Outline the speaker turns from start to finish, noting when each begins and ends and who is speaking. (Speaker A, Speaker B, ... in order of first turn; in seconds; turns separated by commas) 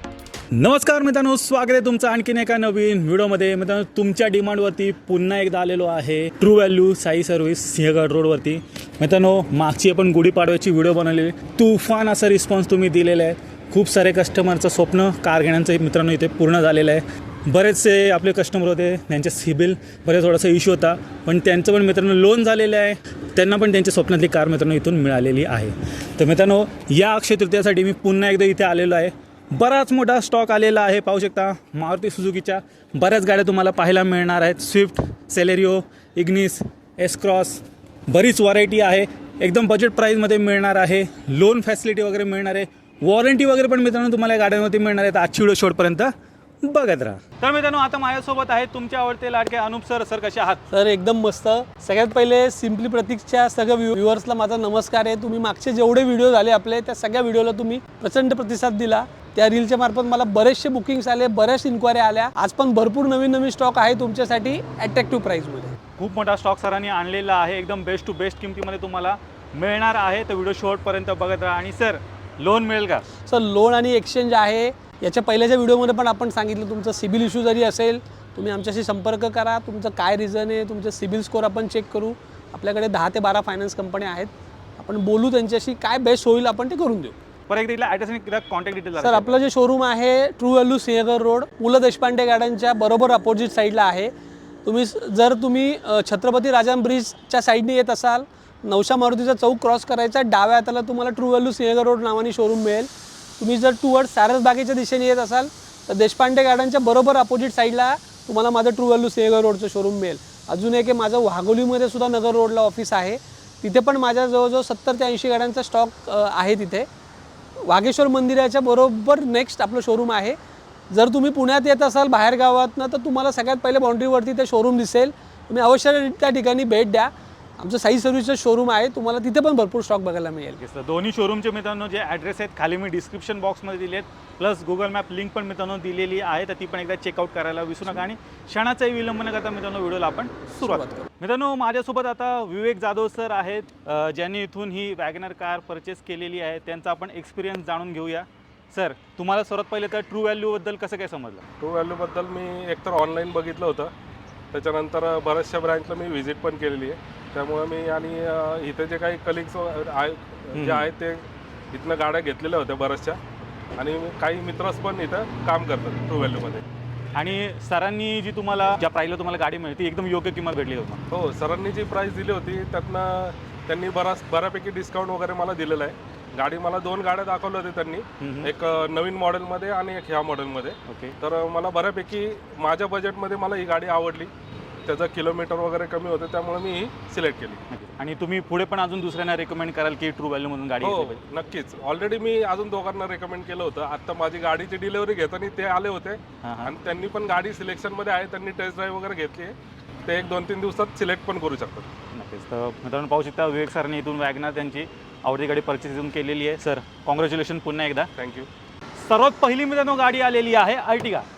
Speaker A: 0.5-50.6, Speaker B: 50.7-65.8, Speaker A: 66.0-73.0, Speaker B: 73.2-87.1, Speaker A: 87.5-89.4, Speaker B: 89.0-94.1, Speaker B: 94.6-116.9, Speaker B: 117.6-120.3, Speaker B: 120.9-130.6, Speaker A: 130.6-151.4, Speaker B: 140.6-141.1, Speaker C: 151.6-153.9, Speaker C: 154.5-163.2, Speaker A: 160.5-160.9, Speaker C: 163.8-166.6, Speaker A: 167.1-171.1, Speaker C: 171.1-184.3, Speaker A: 178.2-178.5, Speaker A: 180.9-181.1, Speaker C: 184.8-187.6, Speaker A: 187.7-191.2, Speaker C: 190.8-199.5, Speaker A: 196.4-196.7, Speaker C: 200.1-201.9, Speaker A: 202.1-208.1, Speaker C: 208.2-208.5, Speaker A: 208.9-211.3